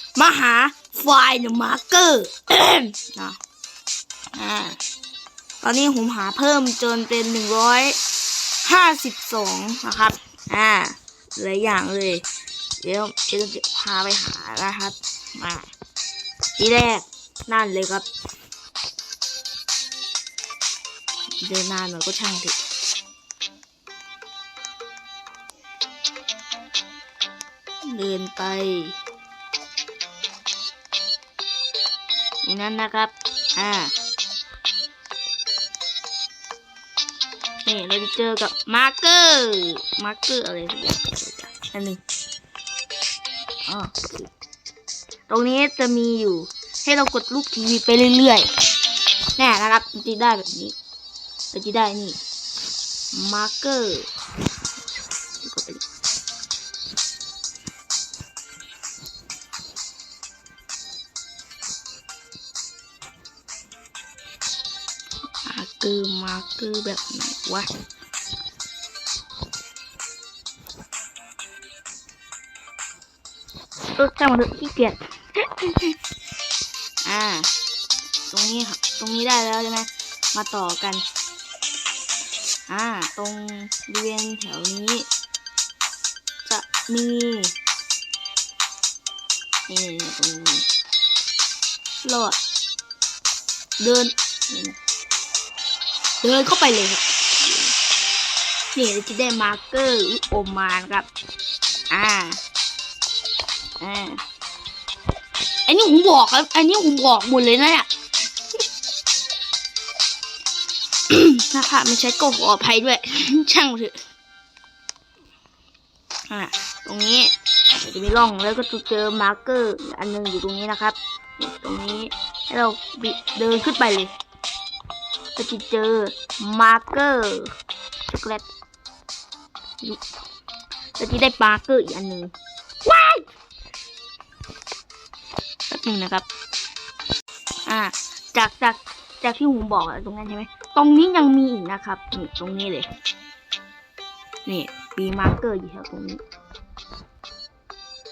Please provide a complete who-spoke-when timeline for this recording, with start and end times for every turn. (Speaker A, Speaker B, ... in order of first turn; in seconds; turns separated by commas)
Speaker A: 0.2-3.4, Speaker A: 4.3-4.8, Speaker A: 5.6-8.0, Speaker A: 8.6-12.2, Speaker A: 12.8-15.7, Speaker A: 16.6-18.1, Speaker A: 21.4-22.6, Speaker A: 27.8-29.0, Speaker A: 32.4-33.9, Speaker A: 37.6-42.0, Speaker A: 43.7-44.3, Speaker A: 45.3-48.5, Speaker A: 49.4-50.8, Speaker A: 51.5-52.2, Speaker A: 53.1-54.1, Speaker A: 55.4-55.8, Speaker A: 65.4-67.7, Speaker A: 74.0-76.0, Speaker A: 77.0-77.5, Speaker A: 78.3-81.0, Speaker A: 82.7-85.1, Speaker A: 86.5-87.5, Speaker A: 89.7-90.7, Speaker A: 92.0-92.4, Speaker A: 93.8-94.8, Speaker A: 96.2-97.8, Speaker A: 98.7-101.1, Speaker A: 101.9-102.4, Speaker A: 103.8-104.2, Speaker A: 105.7-107.9, Speaker A: 111.1-114.0, Speaker A: 116.3-124.1, Speaker A: 125.4-127.5, Speaker A: 128.1-128.5, Speaker A: 131.0-132.3, Speaker A: 132.8-133.3, Speaker A: 135.7-136.3, Speaker A: 137.7-142.9, Speaker A: 144.5-146.2